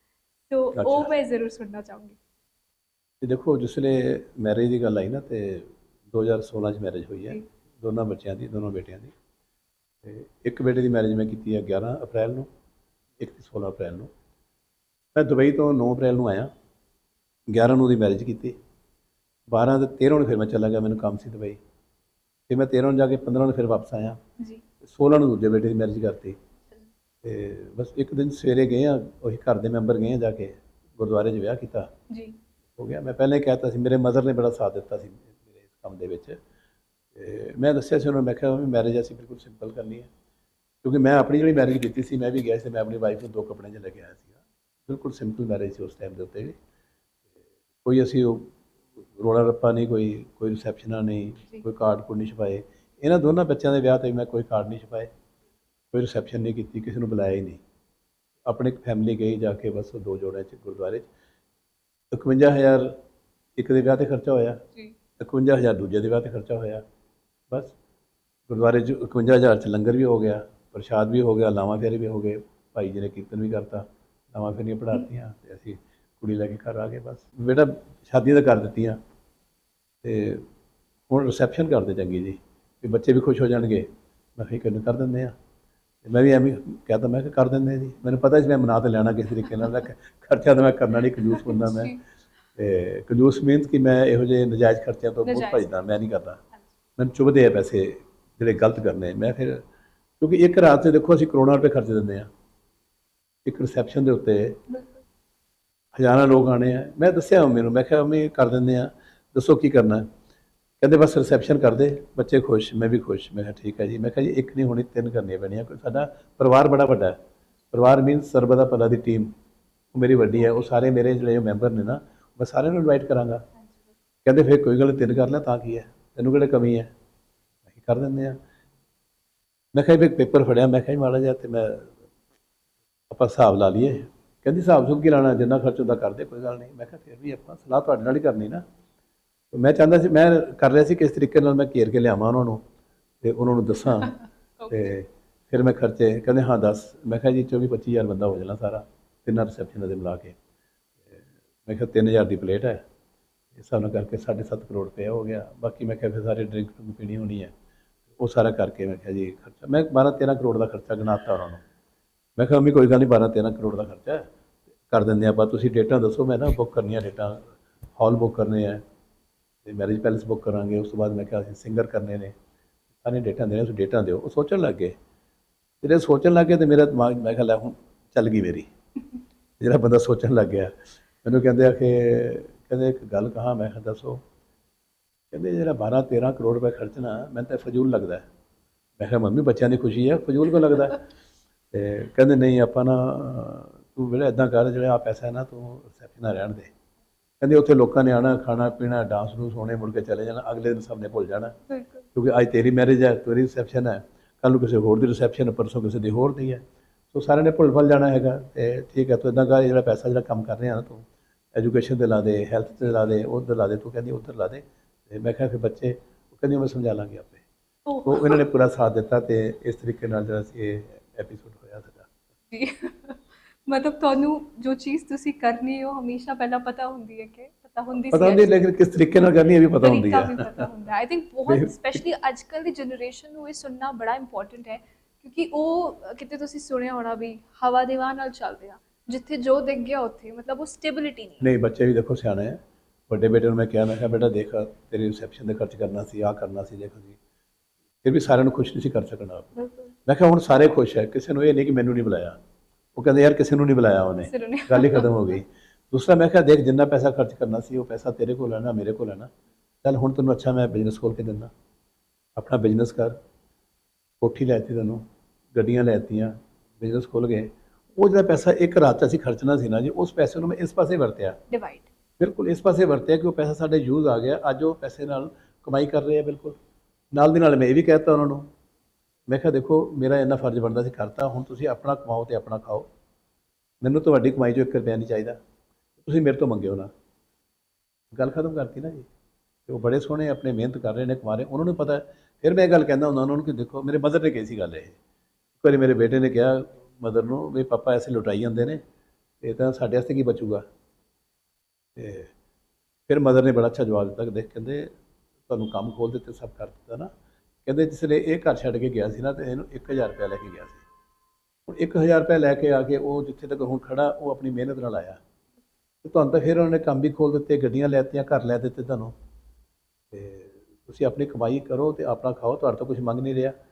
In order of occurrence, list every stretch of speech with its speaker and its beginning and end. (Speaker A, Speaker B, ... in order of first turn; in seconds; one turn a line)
Speaker A: 0.5-2.2
Speaker B: 0.7-1.1
Speaker B: 3.2-9.1
Speaker B: 10.0-12.5
Speaker B: 13.2-14.1
Speaker B: 15.1-16.5
Speaker B: 17.5-18.6
Speaker B: 19.5-21.6
Speaker B: 22.5-24.2
Speaker B: 24.8-26.4
Speaker B: 27.2-31.9
Speaker A: 32.1-32.4
Speaker B: 32.8-36.4
Speaker B: 37.1-40.1
Speaker B: 40.8-46.6
Speaker B: 47.8-48.5
Speaker B: 49.1-55.1
Speaker B: 55.9-57.6
Speaker B: 58.4-61.1
Speaker B: 62.1-62.9
Speaker B: 63.6-64.6
Speaker B: 65.2-66.8
Speaker B: 67.5-67.7
Speaker B: 68.5-79.0
Speaker B: 80.0-80.5
Speaker B: 81.1-85.3
Speaker B: 86.0-91.9
Speaker A: 91.3-92.0
Speaker B: 92.5-96.4
Speaker A: 95.2-95.7
Speaker B: 97.0-99.6
Speaker B: 100.2-102.3
Speaker B: 103.4-104.6
Speaker A: 104.7-105.0
Speaker B: 105.9-110.0
Speaker B: 110.8-117.2
Speaker B: 117.7-119.3
Speaker B: 119.9-123.4
Speaker B: 124.2-126.9
Speaker B: 127.7-128.4
Speaker B: 129.7-131.9
Speaker B: 133.1-138.6
Speaker B: 139.5-142.6
Speaker B: 143.2-144.2
Speaker A: 144.6-144.9
Speaker B: 144.7-150.4
Speaker B: 151.1-152.8
Speaker B: 153.5-157.5
Speaker B: 158.2-161.6
Speaker B: 162.4-164.2
Speaker B: 164.9-168.8
Speaker B: 169.6-172.3
Speaker B: 173.0-174.9
Speaker B: 175.8-178.7
Speaker B: 179.6-184.2
Speaker B: 185.3-188.2
Speaker B: 189.0-191.0
Speaker B: 191.7-196.7
Speaker B: 197.4-201.6
Speaker A: 201.7-202.0
Speaker B: 202.1-217.4
Speaker A: 217.8-218.4
Speaker B: 218.1-222.1
Speaker A: 222.5-228.6
Speaker B: 228.1-230.7
Speaker A: 229.8-241.5
Speaker B: 231.5-232.0
Speaker B: 241.4-247.2
Speaker B: 248.0-249.5
Speaker A: 249.6-249.9
Speaker B: 250.1-252.3
Speaker B: 252.9-259.3
Speaker A: 254.2-255.1
Speaker B: 259.8-261.5
Speaker B: 262.4-263.1
Speaker B: 264.2-271.4
Speaker A: 271.5-271.9
Speaker B: 272.2-276.6
Speaker B: 277.1-278.4
Speaker B: 279.3-282.9
Speaker B: 283.8-285.4
Speaker B: 286.0-286.9
Speaker B: 288.1-289.1
Speaker B: 289.7-295.0
Speaker B: 295.6-298.8
Speaker B: 299.4-300.6
Speaker B: 301.9-302.3
Speaker B: 303.1-304.9
Speaker B: 305.5-307.1
Speaker B: 307.6-310.9
Speaker B: 311.7-315.2
Speaker B: 316.0-319.1
Speaker B: 320.1-323.5